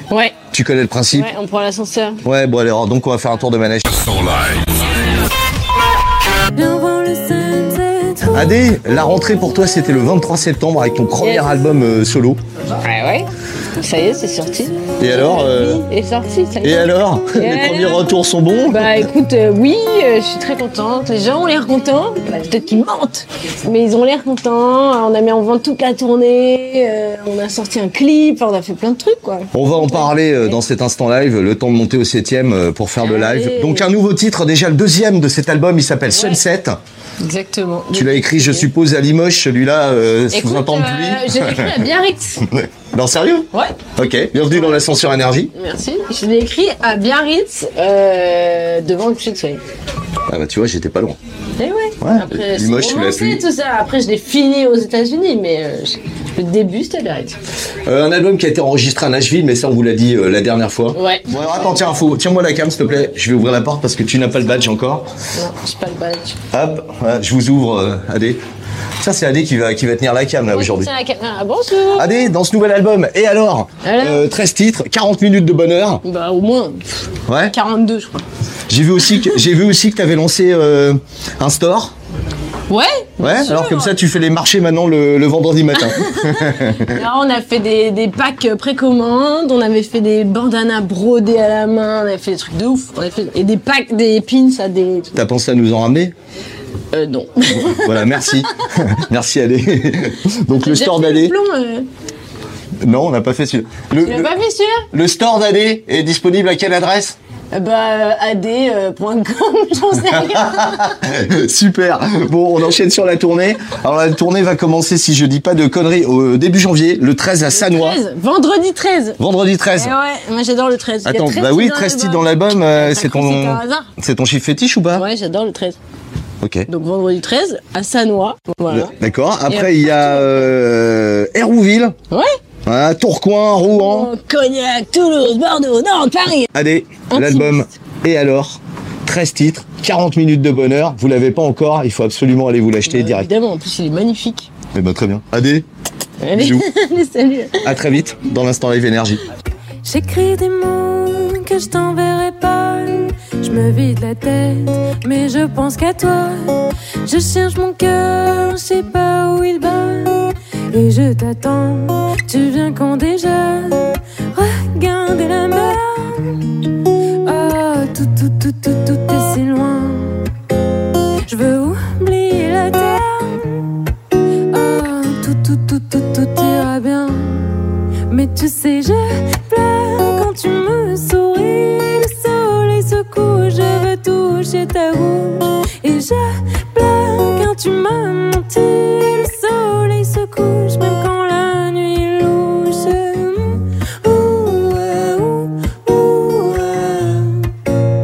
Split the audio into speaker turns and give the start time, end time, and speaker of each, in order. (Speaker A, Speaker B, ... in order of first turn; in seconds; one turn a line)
Speaker A: 0.1-0.4
Speaker B: 0.5-1.3
Speaker A: 1.1-2.2
Speaker B: 2.2-4.6
Speaker C: 6.5-8.6
Speaker B: 8.2-12.4
Speaker A: 11.2-11.6
Speaker A: 12.8-18.1
Speaker B: 15.0-15.8
Speaker B: 16.6-19.1
Speaker A: 18.7-30.6
Speaker B: 29.5-36.8
Speaker A: 33.0-33.9
Speaker A: 36.1-36.4
Speaker A: 37.2-38.7
Speaker B: 37.9-41.9
Speaker A: 40.3-42.5
Speaker B: 42.4-45.5
Speaker A: 43.5-43.9
Speaker A: 44.5-44.8
Speaker A: 45.5-49.6
Speaker B: 50.3-51.2
Speaker A: 51.6-57.4
Speaker B: 52.0-53.4
Speaker B: 57.9-65.1
Speaker A: 60.9-61.3
Speaker A: 65.3-66.4
Speaker B: 66.5-68.4
Speaker B: 69.0-70.9
Speaker A: 70.5-72.3
Speaker B: 71.9-76.0
Speaker A: 73.8-74.3
Speaker A: 76.0-76.9
Speaker B: 77.3-77.5
Speaker A: 77.5-78.2
Speaker B: 78.7-81.9
Speaker A: 82.7-84.0
Speaker B: 83.2-87.0
Speaker A: 85.7-95.2
Speaker B: 95.1-96.1
Speaker A: 96.9-98.5
Speaker B: 97.6-101.3
Speaker A: 100.5-101.9
Speaker B: 102.8-104.3
Speaker A: 104.0-104.9
Speaker B: 104.9-107.2
Speaker A: 107.5-111.0
Speaker B: 110.0-118.0
Speaker A: 117.5-119.2
Speaker B: 119.2-119.9
Speaker A: 119.8-123.9
Speaker B: 121.0-125.1
Speaker A: 124.9-125.8
Speaker B: 126.4-126.7
Speaker A: 126.7-128.9
Speaker B: 128.7-131.9
Speaker A: 129.5-130.5
Speaker B: 132.7-134.1
Speaker A: 133.7-136.5
Speaker B: 136.5-143.3
Speaker A: 137.1-137.6
Speaker A: 142.8-144.5
Speaker B: 144.7-145.7
Speaker A: 146.2-147.8
Speaker B: 146.3-146.7
Speaker B: 147.6-149.2
Speaker C: 149.8-166.6
Speaker C: 167.2-170.3
Speaker C: 171.2-173.8
Speaker C: 174.5-197.5